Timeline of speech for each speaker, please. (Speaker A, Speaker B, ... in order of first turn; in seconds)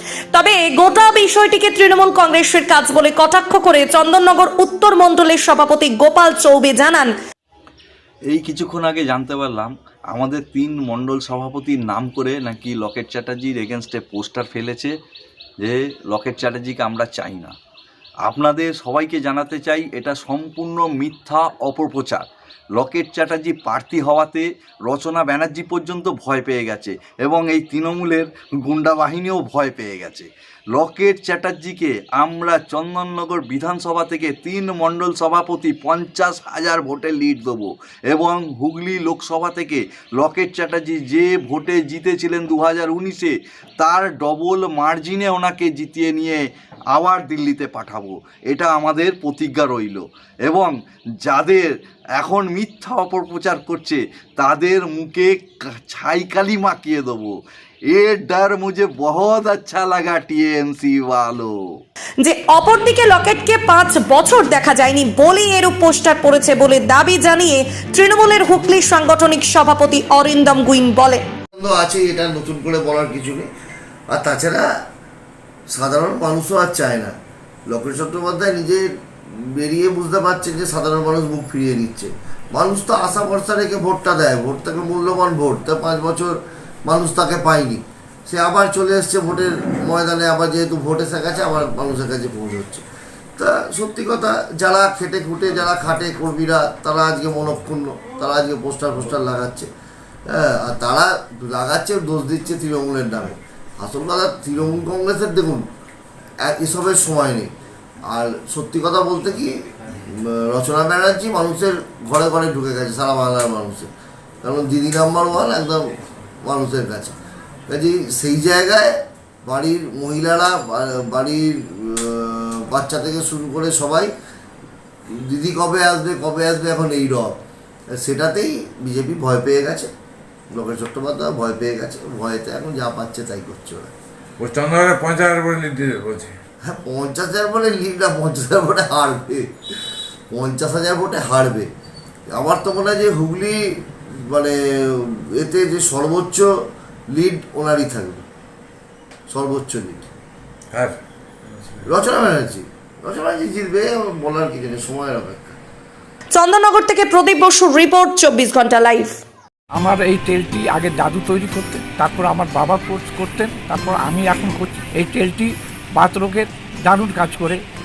Speaker A: 0.3-7.1, 62.2-71.2, 156.3-159.2
Speaker B: 8.3-14.9, 15.6-17.5, 18.3-22.2, 22.8-46.4, 46.9-51.7, 52.2-57.3, 57.9-61.5
Speaker C: 71.6-73.5, 74.1-74.7, 75.7-77.1, 77.7-78.9, 79.4-92.8, 93.4-99.7, 100.3-105.6, 106.4-107.5, 108.1-113.9, 114.4-115.9, 116.4-117.2, 117.7-118.9, 119.5-124.1, 125.1-127.3, 128.0-129.9, 130.5-133.9, 136.7-139.5, 140.3-141.7, 142.3-143.6, 144.2-146.5, 147.1-148.3, 149.3-150.1, 151.9-155.6
Speaker D: 134.4-136.3, 150.7-151.0
Speaker E: 159.7-167.6